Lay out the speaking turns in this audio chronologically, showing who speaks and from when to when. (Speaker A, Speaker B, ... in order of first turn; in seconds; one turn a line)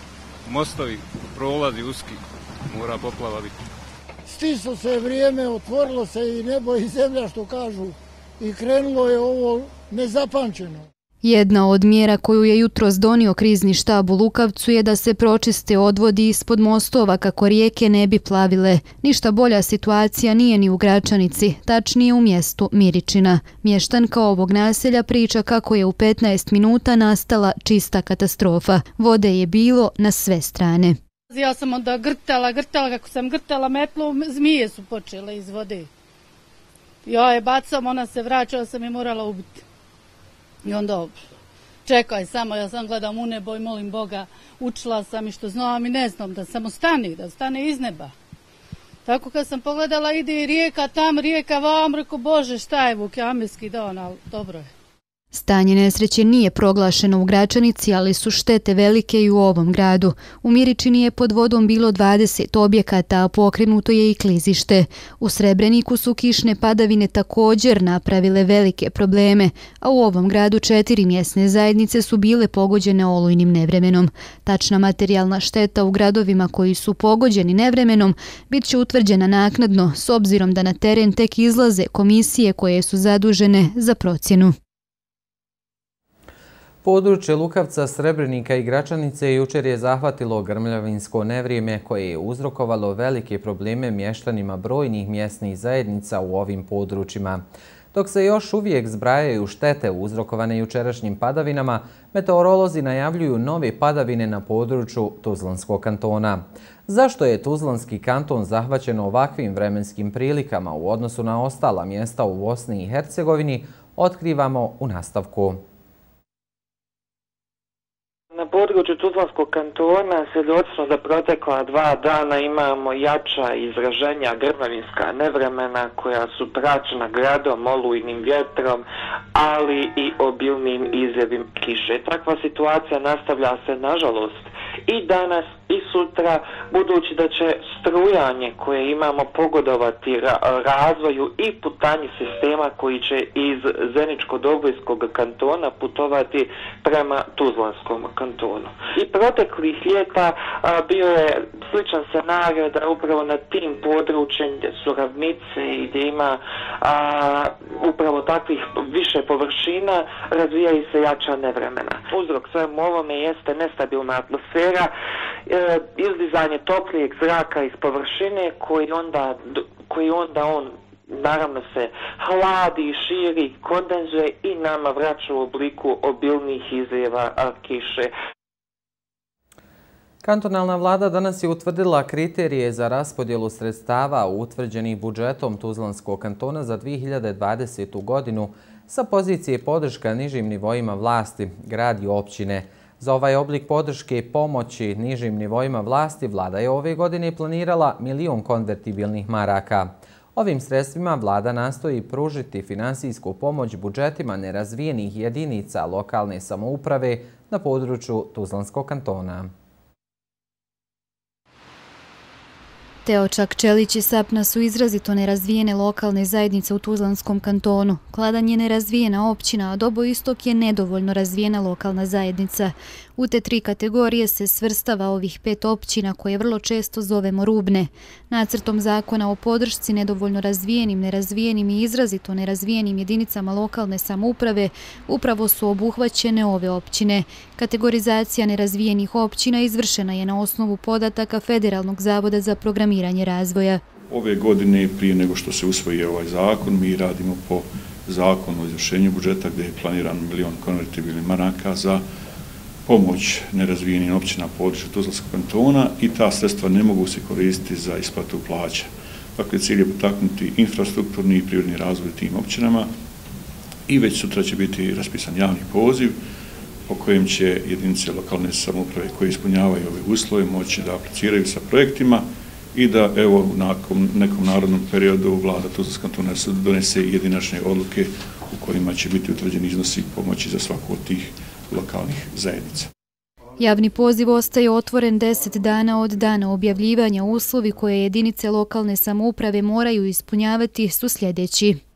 Speaker A: 0.5-3.5
Speaker B: 4.3-10.8
Speaker C: 11.2-31.0
Speaker D: 31.3-35.9
Speaker D: 37.0-39.6
Speaker D: 40.6-41.2
Speaker D: 41.9-48.1
Speaker D: 49.0-54.7
Speaker C: 55.3-84.5
Speaker E: 86.8-115.6
Speaker F: 118.3-164.9
Speaker F: 165.5-178.1
Speaker E: 180.2-209.5
Speaker C: 213.0-243.8
Speaker G: 244.1-252.0
Speaker G: 252.8-262.9
Speaker G: 263.9-266.1
Speaker G: 266.9-282.9
Speaker C: 283.6-291.8